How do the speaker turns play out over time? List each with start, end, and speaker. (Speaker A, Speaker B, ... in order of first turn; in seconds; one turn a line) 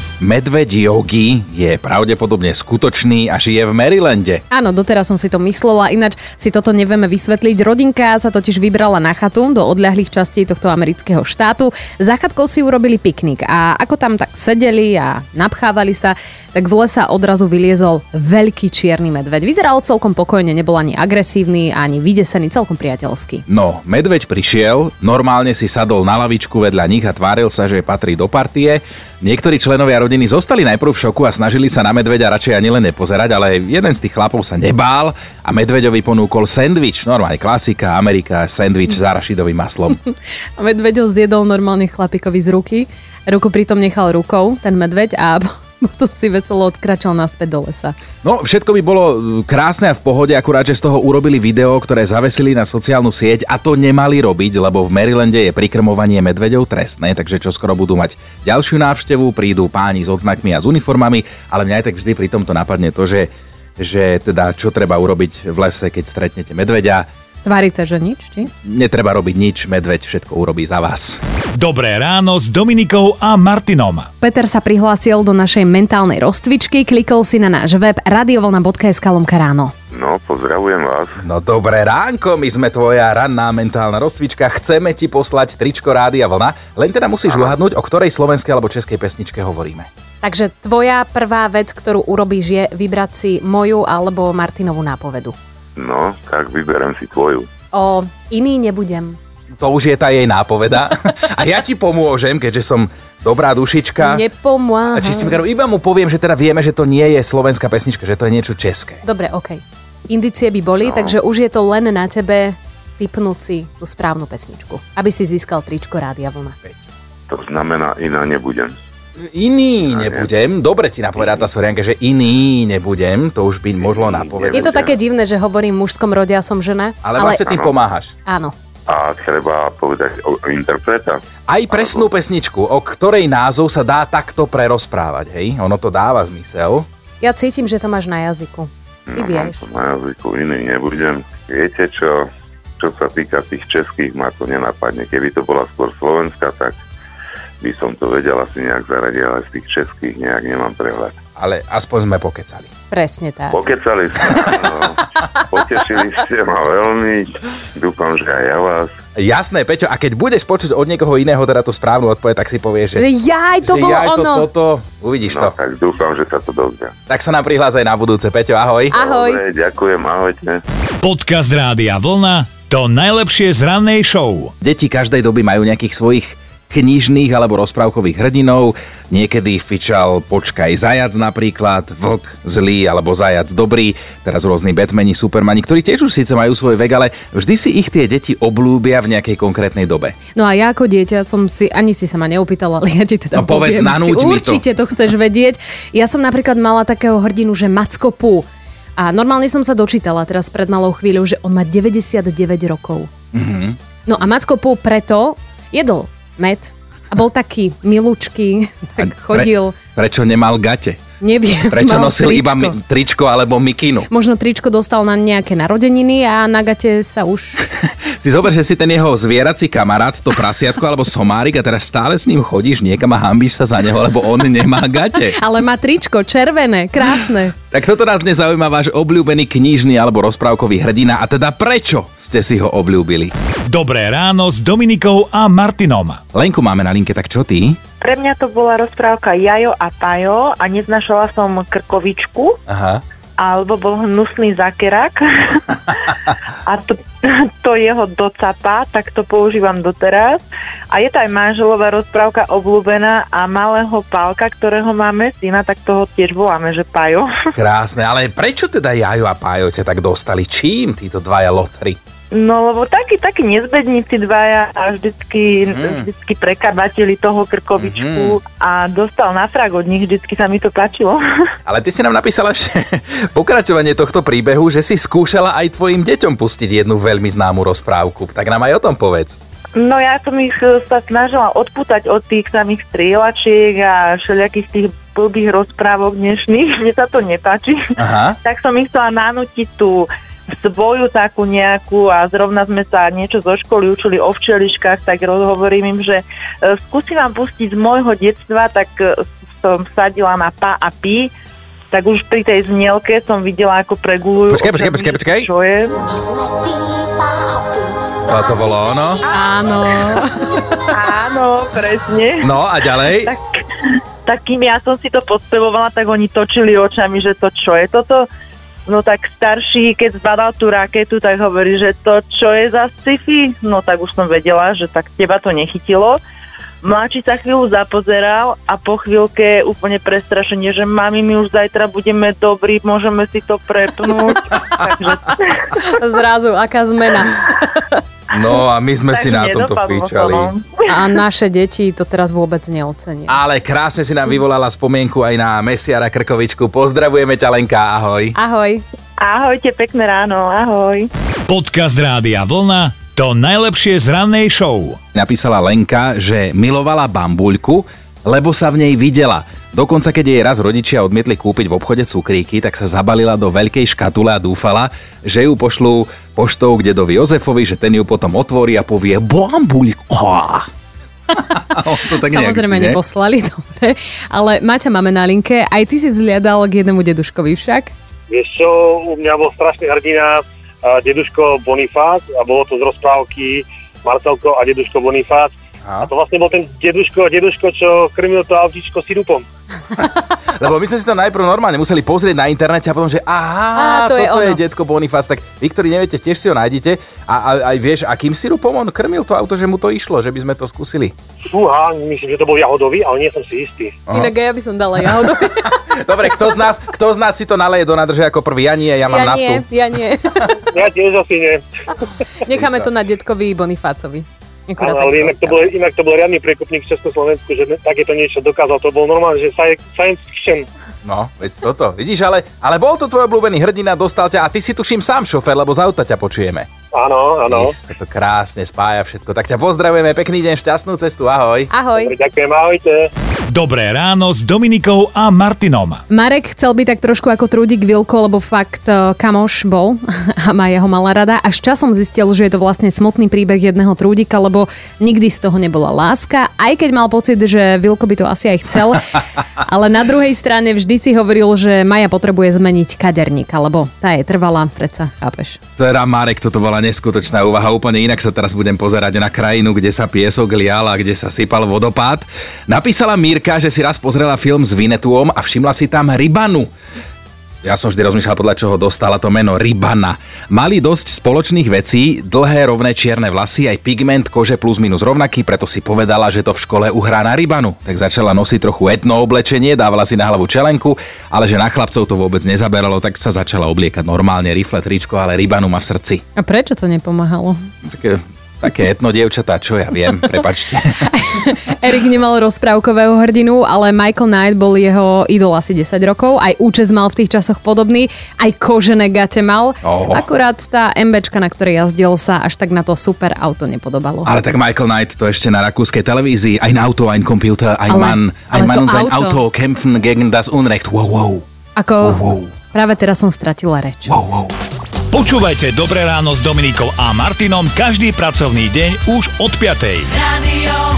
Speaker A: 0.2-4.4
Speaker B: 4.5-23.4
Speaker A: 23.5-40.0
Speaker B: 40.1-48.0
Speaker A: 48.2-67.1
Speaker B: 67.4-68.5
Speaker A: 68.6-71.2
Speaker C: 71.5-74.1
Speaker B: 74.2-79.7
Speaker D: 79.9-81.2
Speaker A: 81.2-89.9
Speaker D: 87.3-87.5
Speaker B: 90.2-95.3
Speaker D: 95.8-97.5
Speaker B: 97.7-99.2
Speaker A: 99.6-104.2
Speaker B: 104.0-105.4
Speaker A: 104.9-109.0
Speaker B: 109.0-116.6
Speaker D: 110.8-111.1
Speaker D: 117.3-118.8
Speaker A: 119.2-124.9
Speaker D: 119.9-120.3
Speaker D: 121.2-121.4
Speaker D: 123.8-125.0
Speaker B: 124.5-127.6
Speaker A: 127.0-128.1
Speaker B: 128.2-128.5
Speaker D: 128.9-132.1
Speaker A: 131.5-136.8
Speaker B: 137.2-139.6
Speaker D: 139.1-142.2
Speaker D: 142.8-146.8
Speaker D: 147.6-151.2
Speaker A: 151.4-152.7
Speaker B: 152.9-153.6
Speaker D: 153.5-158.9
Speaker A: 159.2-163.0
Speaker B: 162.9-164.5
Speaker A: 163.6-165.5
Speaker D: 165.2-166.9
Speaker A: 167.1-168.9
Speaker B: 168.9-169.4
Speaker D: 168.9-170.6
Speaker C: 171.0-174.5
Speaker A: 174.6-190.1
Speaker B: 190.3-203.1
Speaker A: 193.3-194.6
Speaker A: 203.3-203.8
Speaker B: 204.1-209.8
Speaker A: 209.0-211.0
Speaker B: 211.2-212.7
Speaker A: 211.7-214.1
Speaker B: 214.1-217.7
Speaker A: 217.6-225.4
Speaker B: 225.2-227.5
Speaker A: 227.7-233.3
Speaker C: 233.7-236.2
Speaker A: 236.3-237.8
Speaker E: 238.0-242.6
Speaker A: 242.7-243.0
Speaker E: 243.4-245.8
Speaker E: 246.7-257.3
Speaker A: 257.5-262.0
Speaker E: 262.3-271.2
Speaker A: 265.7-266.1
Speaker A: 267.8-268.4
Speaker A: 271.6-279.4
Speaker E: 279.8-290.1
Speaker A: 288.0-288.4
Speaker E: 290.6-301.3
Speaker E: 301.9-306.0
Speaker A: 304.5-305.5
Speaker A: 308.2-309.2
Speaker B: 309.3-310.7
Speaker E: 310.9-318.2
Speaker A: 312.4-313.3
Speaker E: 318.9-326.2
Speaker E: 326.8-335.9
Speaker B: 335.8-337.9
Speaker A: 338.3-340.5
Speaker E: 339.1-340.8
Speaker B: 340.9-343.4
Speaker A: 343.3-348.4
Speaker B: 348.4-348.8
Speaker E: 349.2-351.1
Speaker C: 351.5-355.0
Speaker A: 355.1-370.7
Speaker A: 371.3-373.0
Speaker B: 372.2-377.9
Speaker F: 378.3-389.4
Speaker A: 385.8-386.1
Speaker A: 390.0-401.1
Speaker B: 393.7-394.6
Speaker F: 401.5-404.0
Speaker B: 404.1-405.8
Speaker A: 405.2-409.6
Speaker B: 409.1-410.6
Speaker F: 410.6-411.6
Speaker B: 412.4-415.6
Speaker A: 412.6-412.8
Speaker F: 414.8-420.7
Speaker A: 421.0-426.7
Speaker F: 426.9-427.7
Speaker A: 427.5-431.7
Speaker B: 431.7-432.1
Speaker F: 431.9-433.1
Speaker C: 433.5-436.0
Speaker B: 436.1-455.6
Speaker A: 455.8-466.7
Speaker A: 467.6-486.2
Speaker B: 486.4-487.6
Speaker A: 487.8-491.1
Speaker B: 491.1-504.3
Speaker A: 499.8-500.2
Speaker A: 504.2-511.4
Speaker B: 507.9-509.4
Speaker B: 511.8-514.1
Speaker A: 512.0-512.5
Speaker A: 514.1-514.5
Speaker C: 515.1-520.6